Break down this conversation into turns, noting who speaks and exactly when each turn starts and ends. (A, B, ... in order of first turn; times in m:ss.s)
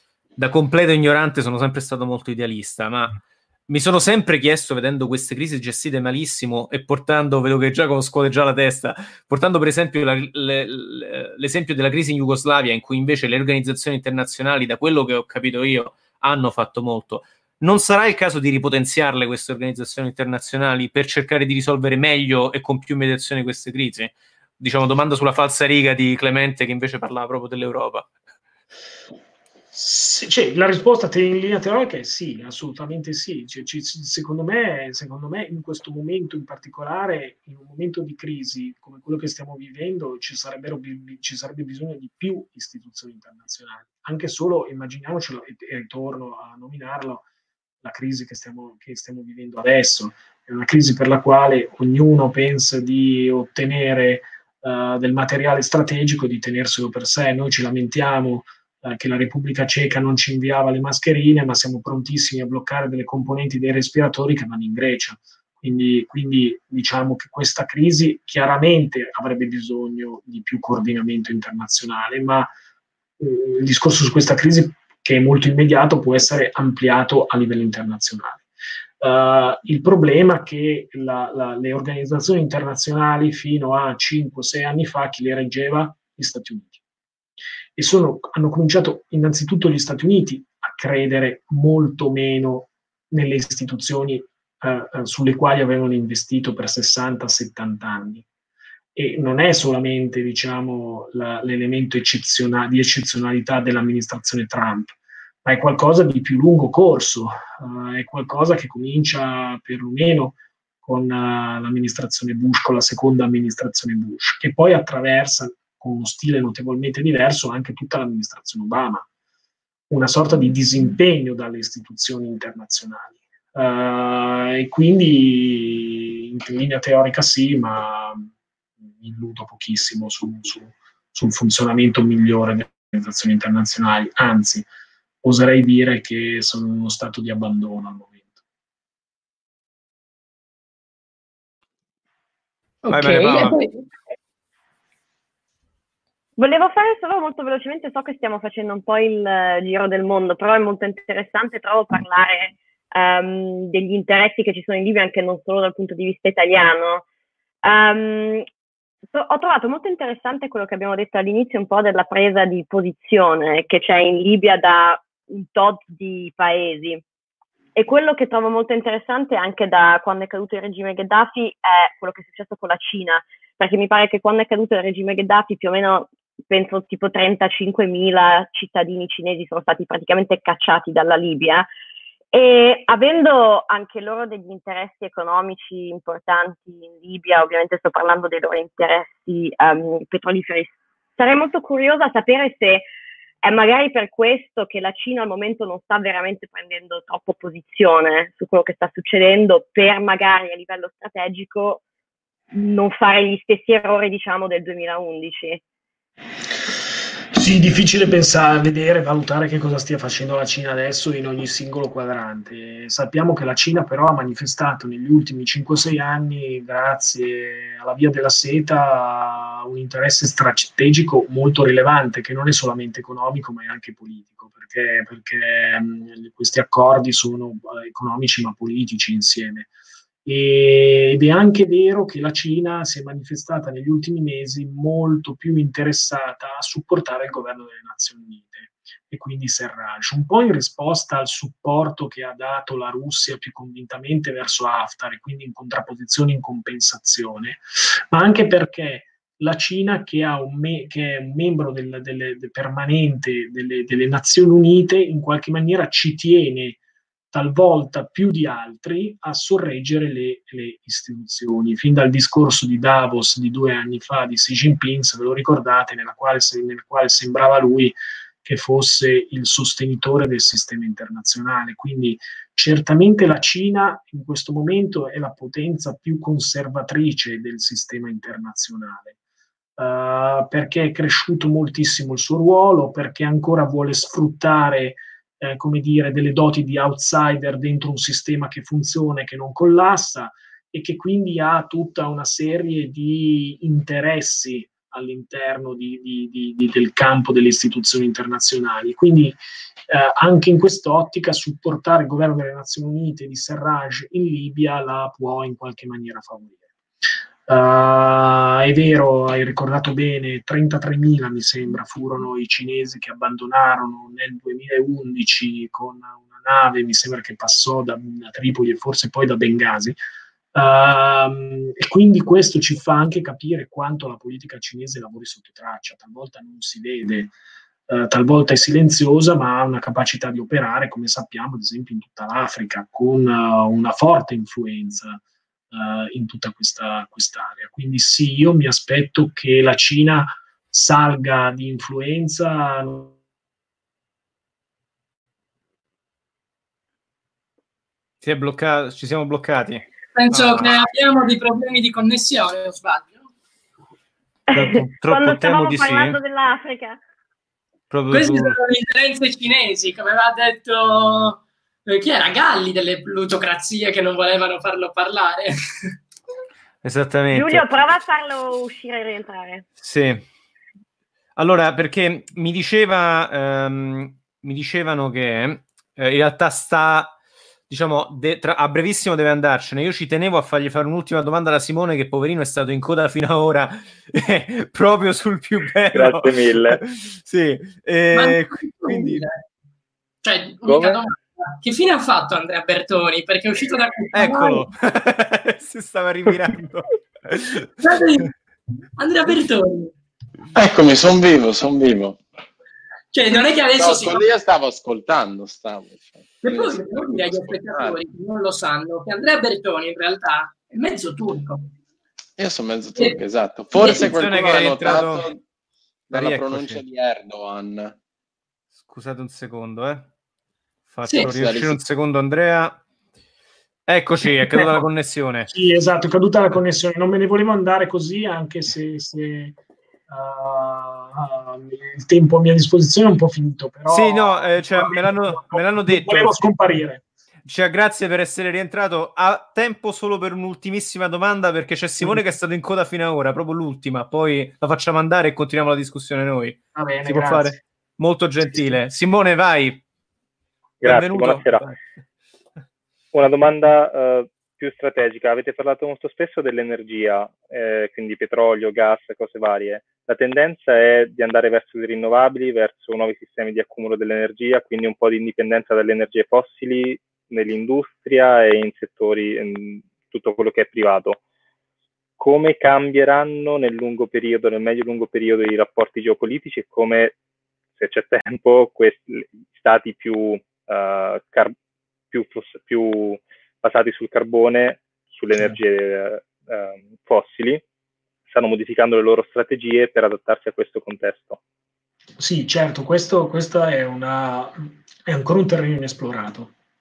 0:00.4-0:28.1 A
0:29.7-0:47.2 B
0:47.8-1:12.5 B
1:13.2-1:18.5 B
1:19.0-1:26.8 B
1:27.8-1:38.2 B
1:39.0-1:59.1 B
1:59.9-2:08.3 B
2:08.9-2:14.7 B
2:15.2-2:18.4 B
2:22.8-2:23.8 C
2:22.9-2:23.6 A
2:26.4-2:37.0 D
2:37.6-2:38.5 D
2:39.1-2:47.0 D
2:47.8-3:01.7 D
3:02.3-3:12.9 D
3:13.4-3:21.8 D
3:22.5-3:25.6 D
3:27.3-3:49.7 B
3:50.2-4:16.8 B
4:17.3-4:39.2 B
4:39.8-5:06.7 B
5:07.5-5:20.0 B
5:20.5-5:27.3 B
5:27.9-5:43.2 B
5:48.2-5:50.8 A
5:50.2-5:53.3 C
5:54.5-5:57.0 D
5:54.5-5:56.2 A
5:57.9-5:58.6 A
5:58.1-6:05.9 C
6:06.8-6:07.7 A
6:07.3-6:09.7 D
6:09.8-6:10.2 A
6:11.4-6:17.2 A
6:17.7-6:29.2 A
6:25.9-6:26.8 E
6:28.1-6:29.4 C
6:30.2-6:34.6 C
6:30.7-6:31.0 E
6:34.1-6:37.7 A
6:37.8-6:38.3 C
6:39.0-6:39.9 C
6:40.6-6:42.2 F
6:43.1-6:44.2 C
6:43.8-6:48.0 F
6:46.4-6:51.6 C
6:52.4-6:55.4 F
6:53.8-6:54.0 C
6:54.0-6:55.3 A
6:56.1-6:58.0 F
6:56.1-6:56.8 A
6:58.8-7:00.1 A
7:00.9-7:02.8 A
7:01.2-7:01.8 F
7:03.9-7:05.5 A
7:05.5-7:09.6 B
7:10.1-7:17.0 B
7:13.9-7:16.3 A
7:17.5-7:29.8 A
7:26.8-7:27.6 B
7:30.8-7:31.7 E
7:30.8-7:31.8 A
7:33.1-7:51.2 E
7:52.2-7:57.2 E
7:57.8-8:01.6 E
8:02.1-8:07.6 E
8:08.3-8:11.4 E
8:12.2-8:16.5 B